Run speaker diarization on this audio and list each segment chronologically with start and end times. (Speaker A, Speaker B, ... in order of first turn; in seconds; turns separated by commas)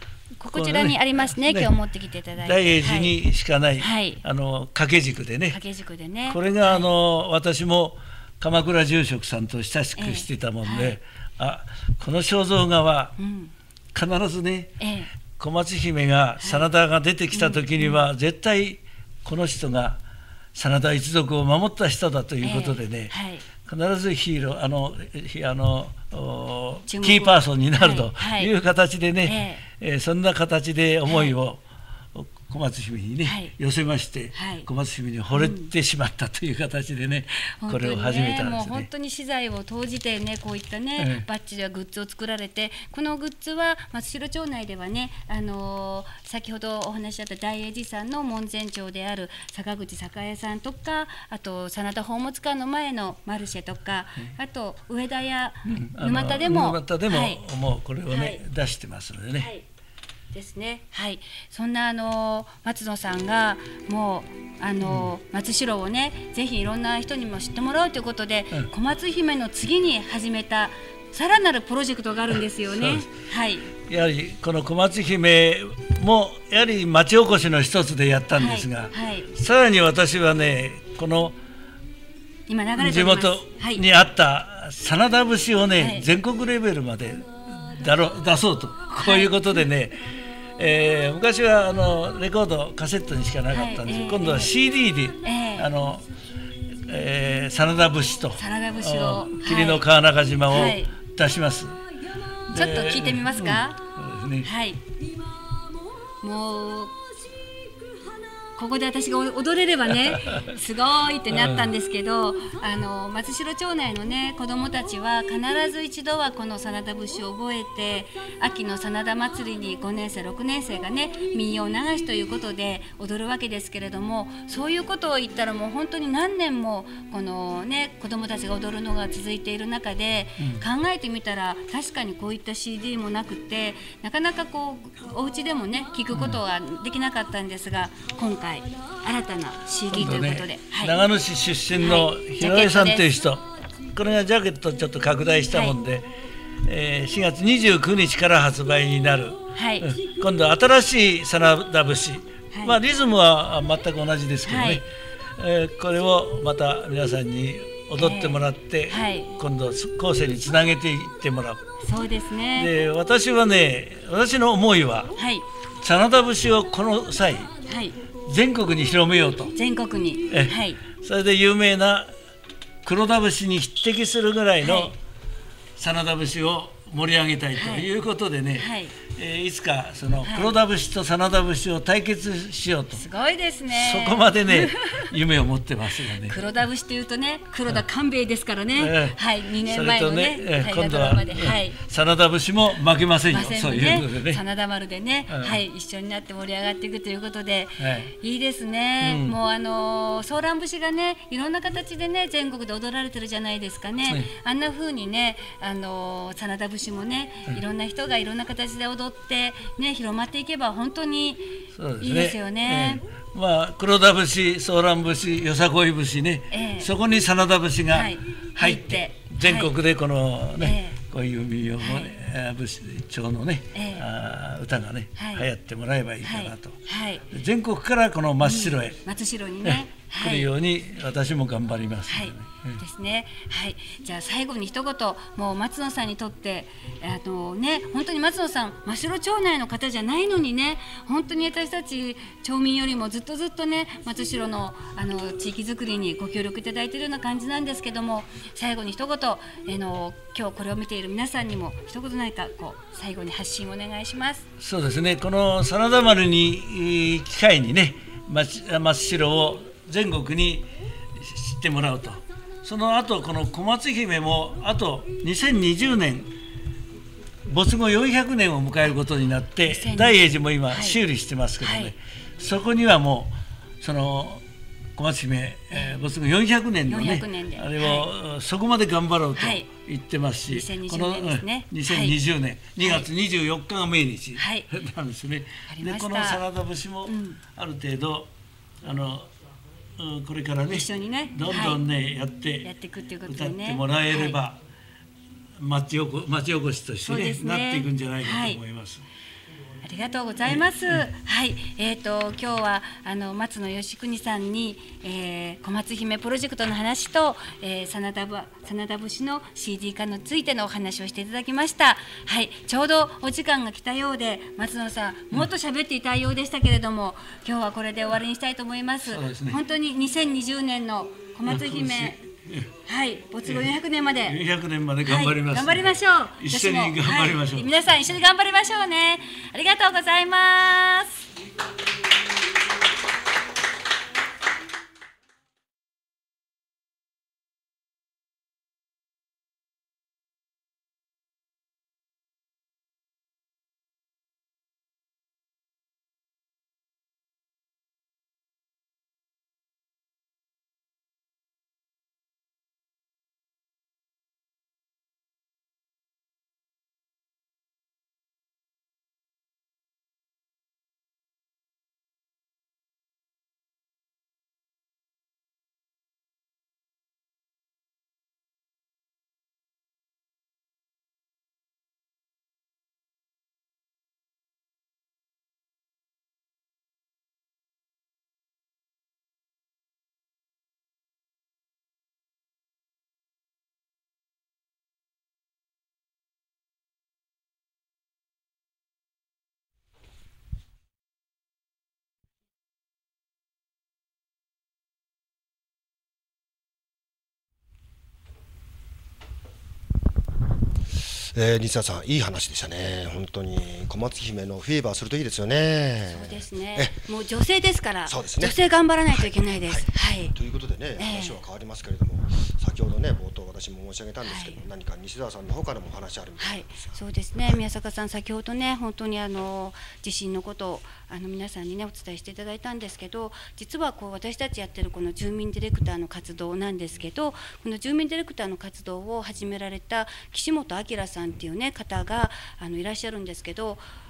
Speaker A: 0.4-3.2, Speaker B: 0.5-1.7, Speaker B: 2.4-5.6, Speaker A: 3.8-4.2, Speaker A: 5.5-6.9, Speaker B: 6.3-13.2, Speaker A: 10.0-11.0, Speaker A: 13.2-13.5, Speaker B: 13.9-14.8, Speaker A: 14.8-15.1, Speaker B: 15.4-20.0, Speaker A: 16.4-16.7, Speaker A: 17.3-18.0, Speaker B: 20.6-31.6, Speaker A: 22.4-23.4, Speaker A: 26.9-28.5, Speaker A: 29.2-29.6, Speaker A: 31.1-31.4, Speaker B: 32.1-38.9, Speaker A: 33.2-33.5, Speaker A: 34.3-34.7, Speaker A: 35.3-35.7, Speaker A: 37.6-57.4, Speaker B: 41.0-41.2, Speaker B: 55.7-59.5, Speaker A: 58.1-58.4, Speaker A: 59.4-59.6, Speaker A: 60.3-73.7, Speaker B: 64.8-65.1, Speaker B: 72.7-73.1, Speaker B: 73.8-81.4, Speaker A: 78.3-79.3, Speaker A: 82.5-83.8, Speaker B: 82.8-96.1, Speaker A: 85.8-86.1, Speaker A: 89.0-89.6, Speaker A: 93.5-94.5, Speaker A: 95.2-95.7, Speaker B: 96.7-101.8, Speaker A: 98.4-99.9, Speaker A: 100.5-101.0, Speaker B: 102.5-104.5, Speaker A: 102.5-103.8, Speaker A: 104.4-104.8, Speaker A: 106.2-107.0, Speaker A: 108.5-141.1, Speaker B: 111.3-111.7, Speaker B: 130.4-130.6, Speaker B: 136.1-136.4, Speaker B: 139.9-146.1, Speaker A: 141.8-143.1, Speaker A: 145.5-145.8, Speaker B: 146.7-161.6, Speaker A: 149.5-150.0, Speaker A: 152.5-152.8, Speaker A: 154.4-154.8, Speaker A: 158.0-159.4, Speaker A: 161.8-162.7, Speaker B: 162.6-165.1, Speaker A: 165.2-165.4, Speaker B: 165.8-167.5, Speaker A: 167.6-168.0, Speaker B: 168.2-169.6, Speaker A: 169.5-170.9, Speaker B: 170.3-172.1, Speaker B: 172.8-175.0, Speaker A: 174.6-174.9, Speaker B: 175.8-183.1, Speaker A: 177.6-177.9, Speaker A: 178.6-179.0, Speaker A: 180.2-180.6, Speaker A: 182.9-185.1, Speaker B: 183.7-186.4, Speaker A: 186.2-191.8, Speaker B: 188.8-194.4, Speaker A: 193.3-213.0, Speaker B: 195.3-195.6, Speaker B: 197.8-198.1, Speaker B: 199.0-199.4, Speaker B: 211.7-229.0, Speaker A: 216.5-216.9, Speaker A: 217.9-219.8, Speaker A: 220.6-221.0, Speaker A: 221.8-222.1, Speaker A: 223.7-224.1, Speaker A: 225.2-225.5, Speaker A: 226.2-227.3, Speaker A: 228.4-230.5, Speaker B: 229.6-232.8, Speaker A: 232.1-254.4, Speaker B: 254.6-266.3, Speaker B: 267.5-274.4, Speaker A: 269.7-271.0, Speaker A: 271.6-271.9, Speaker B: 274.9-288.3, Speaker A: 276.9-278.1, Speaker A: 279.4-279.7, Speaker A: 280.5-282.2, Speaker A: 282.8-283.1, Speaker A: 284.4-284.7, Speaker A: 285.7-286.4, Speaker A: 287.1-287.4, Speaker B: 288.8-289.3, Speaker B: 290.0-292.7, Speaker A: 290.7-291.8, Speaker A: 292.6-294.4, Speaker B: 293.3-294.6, Speaker B: 295.6-299.1, Speaker A: 297.1-298.6, Speaker A: 299.8-322.2, Speaker B: 300.5-301.0, Speaker B: 319.1-319.6, Speaker B: 321.5-322.7, Speaker A: 322.9-324.4, Speaker B: 323.4-323.7, Speaker B: 324.2-327.8, Speaker A: 325.0-331.3, Speaker C: 401.1-407.0, Speaker A: 406.1-410.4, Speaker C: 408.1-417.6, Speaker A: 411.0-411.4, Speaker A: 414.2-414.6, Speaker A: 416.4-433.8